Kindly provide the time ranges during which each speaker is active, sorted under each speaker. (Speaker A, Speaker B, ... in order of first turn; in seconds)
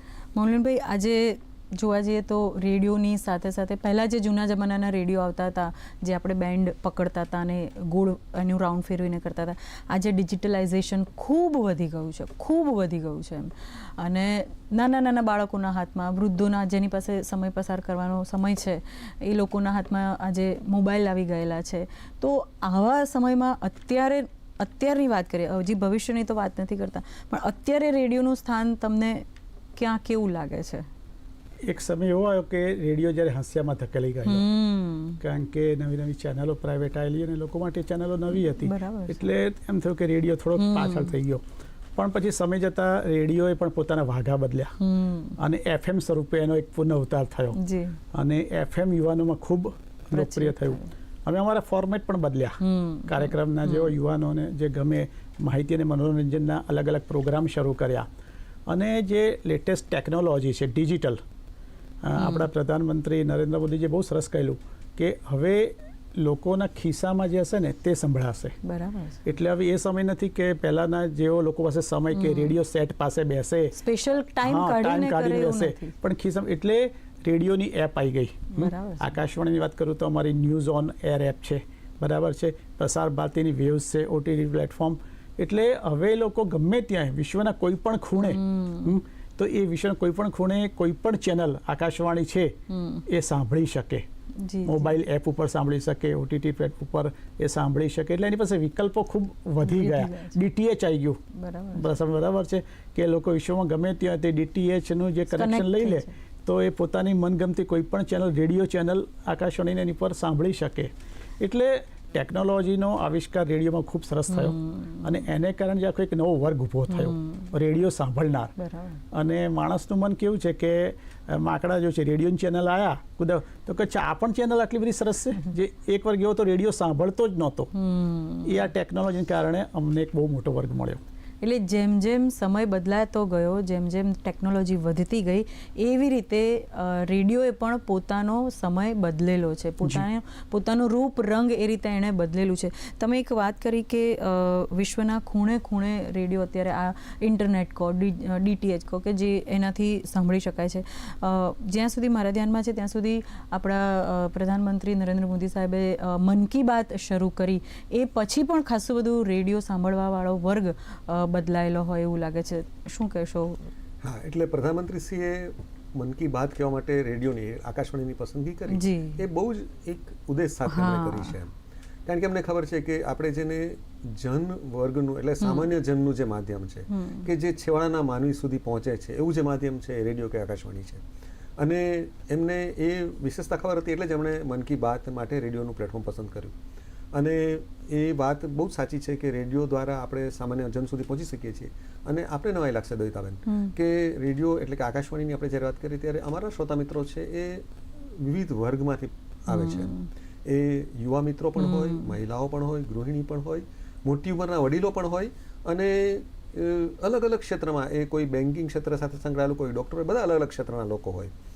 Speaker A: 0.3-30.9, 34.2-35.2, 38.3-39.2, 40.5-41.1, 44.8-45.4, 47.6-48.0, 50.1-50.9, 52.6-53.9, 62.1-62.5, 68.6-69.2, 72.1-72.5, 73.7-75.9, 78.5-79.1, 88.2-89.0, 92.7-93.0, 94.4-95.0, 99.6-100.4, 101.3-101.9, 105.3-106.1, 114.3-115.3, 116.9-117.5, 118.6-119.0, 127.7-128.7, 131.4-163.7, 168.7-169.2, 170.7-171.3, 175.4-175.7, 176.9-177.3, 193.5-193.7, 199.5-200.1, 201.6-202.1
Speaker B: 31.6-34.5, 35.2-41.4, 42.0-44.7, 45.4-47.6, 48.1-58.1, 58.7-61.2, 62.0-68.5, 69.2-73.7, 74.4-92.5, 93.1-94.0, 94.6-101.2, 101.7-118.5, 119.1-127.7, 128.4-131.0
Speaker C: 164.0-171.5, 172.1-181.0, 181.6-186.5, 187.1-199.9, 200.4-211.3